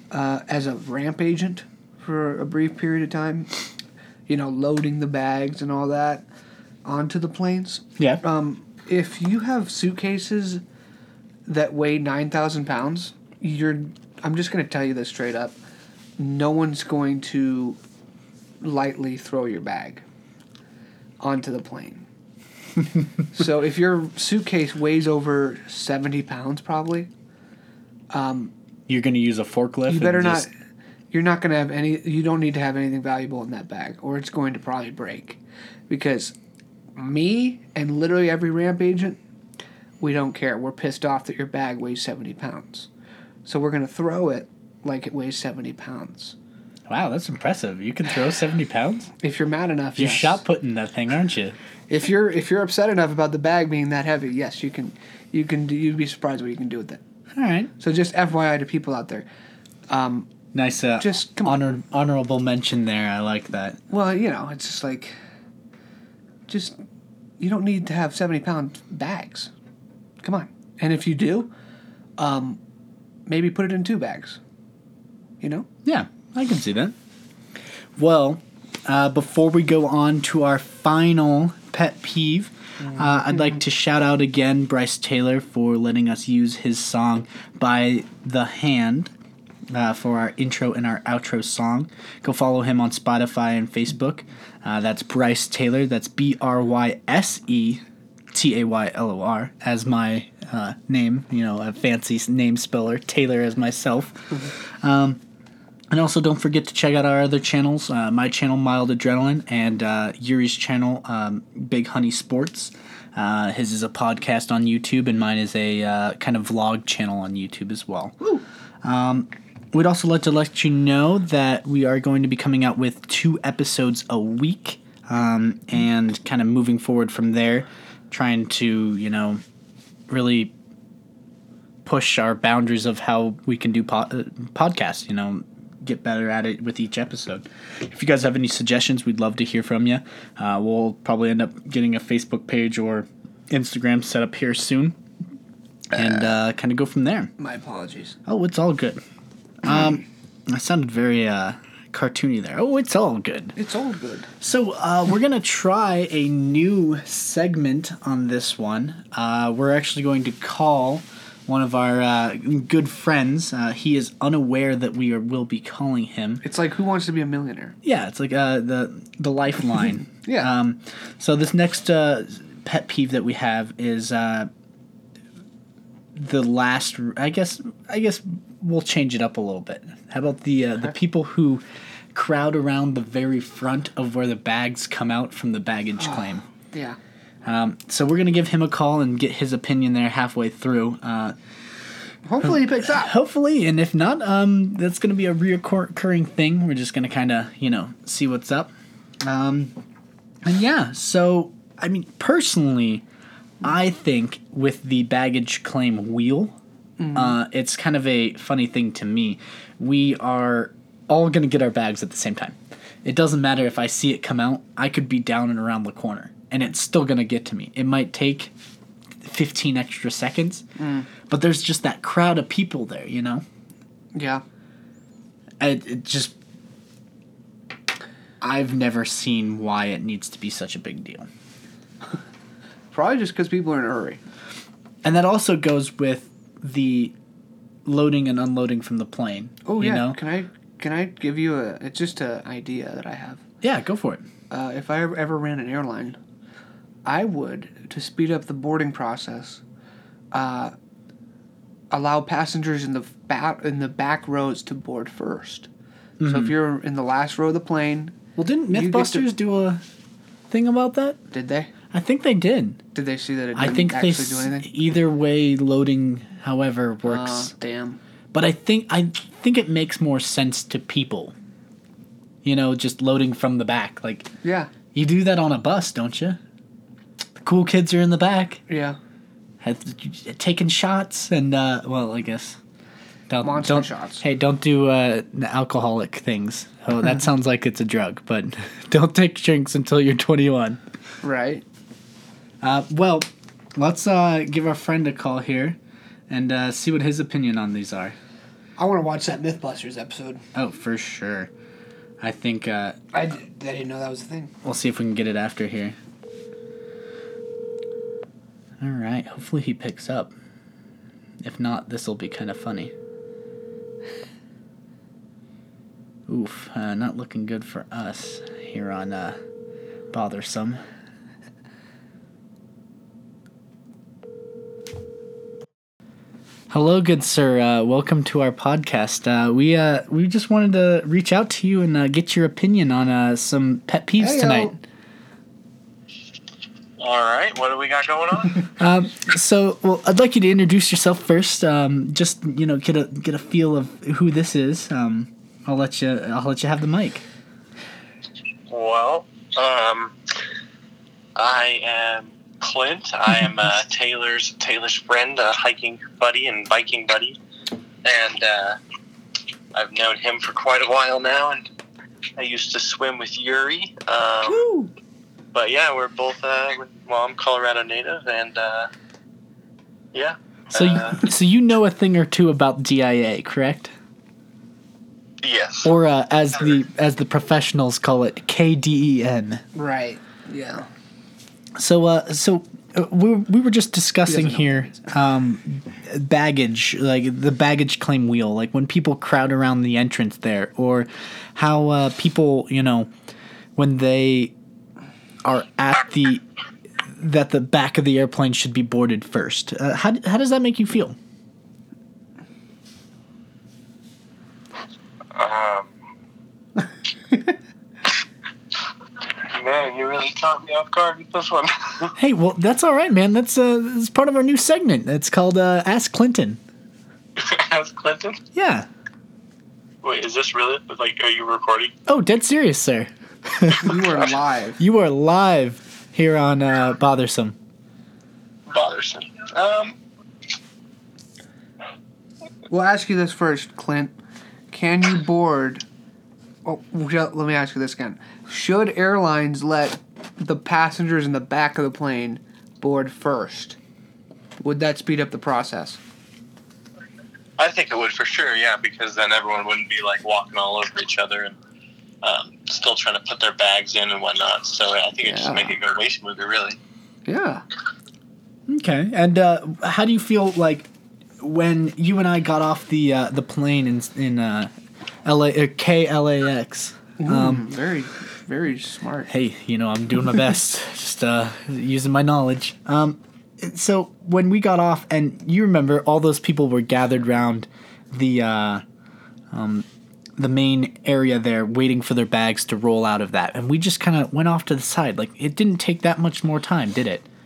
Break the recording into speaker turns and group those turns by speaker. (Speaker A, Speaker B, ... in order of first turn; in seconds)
Speaker A: 0.1-3.6, 4.3-6.2, 6.8-10.6, 11.5-15.6, 16.2-17.8, 18.6-20.0, 21.2-22.1, 23.3-27.1, 28.1-28.5, 29.9-30.5, 31.1-36.3, 37.0-39.2, 40.0-42.9, 43.4-46.3, 49.2-50.4, 51.9-57.0, 57.8-59.2, 59.9-60.3, 61.0-61.6, 63.9-65.1, 66.5-66.8, 67.4-69.5, 70.2-71.5, 72.2-72.6, 73.3-74.4, 75.4-75.7, 82.8-83.6, 147.4-148.2, 153.6-154.3, 166.4-167.8, 170.2-170.5, 186.0-187.0, 192.2-193.1, 207.0-207.4, 220.8-221.1, 224.1-224.4, 232.9-234.2, 239.6-243.4, 244.5-246.2, 247.0-249.6, 250.3-250.7, 251.9-255.7, 256.2-258.2, 258.7-259.3, 261.3-261.7, 262.9-264.7, 267.0-268.0, 274.4-274.7, 278.7-279.0, 283.4-284.2, 291.2-291.6, 298.8-300.4, 303.1-304.5, 334.2-334.8, 379.7-380.9, 384.2-385.0, 423.7-424.8, 432.7-434.1, 434.7-435.9, 436.6-443.8, 444.6-446.0, 455.2-455.8, 457.2-457.6, 467.2-469.3
Speaker B: 28.9-30.4, 46.9-49.1, 50.0-51.5, 57.3-57.7, 60.5-63.8, 75.8-76.9, 78.0-89.1, 89.7-105.2, 105.9-118.2, 118.8-129.4, 130.1-130.5, 131.8-145.0, 145.9-147.3, 148.2-149.0, 149.6-153.6, 154.4-166.4, 167.8-174.5, 176.1-181.6, 182.1-186.4, 187.4-191.3, 192.4-199.8, 200.4-203.0, 203.6-206.5, 207.1-218.5, 219.2-220.7, 221.3-223.4, 225.6-226.3, 228.4-231.3, 235.0-237.1, 237.8-240.2, 243.6-244.2, 256.2-256.5, 258.4-259.8, 260.5-261.2, 261.9-262.8, 263.5-267.5, 268.3-271.3, 272.4-274.3, 274.9-276.4, 277.4-278.6, 279.6-282.6, 283.3-290.8, 292.6-295.8, 296.3-298.1, 300.5-301.5, 302.2-303.0, 304.6-305.9, 308.8-310.3, 311.4-312.9, 316.3-319.4, 320.1-320.8, 326.7-334.8, 338.8-347.2, 364.5-364.9, 370.7-373.9, 375.8-379.6, 381.8-393.1, 393.8-394.5, 395.4-396.4, 397.1-401.2, 412.1-416.6, 418.5-418.9, 422.1-424.1, 424.8-427.6, 458.7-460.9, 461.4-464.7, 465.2-467.7, 469.3-478.8, 479.5-479.9, 480.4-487.2
Speaker C: 337.0-338.7, 348.7-350.1, 351.4-357.4, 358.0-358.8, 359.7-361.7, 362.4-364.7, 365.5-368.9, 370.1-371.3, 375.4-375.9, 405.3-405.9, 409.4-412.1, 417.4-418.4, 420.0-421.9, 428.7-430.0, 447.6-451.6, 452.2-456.8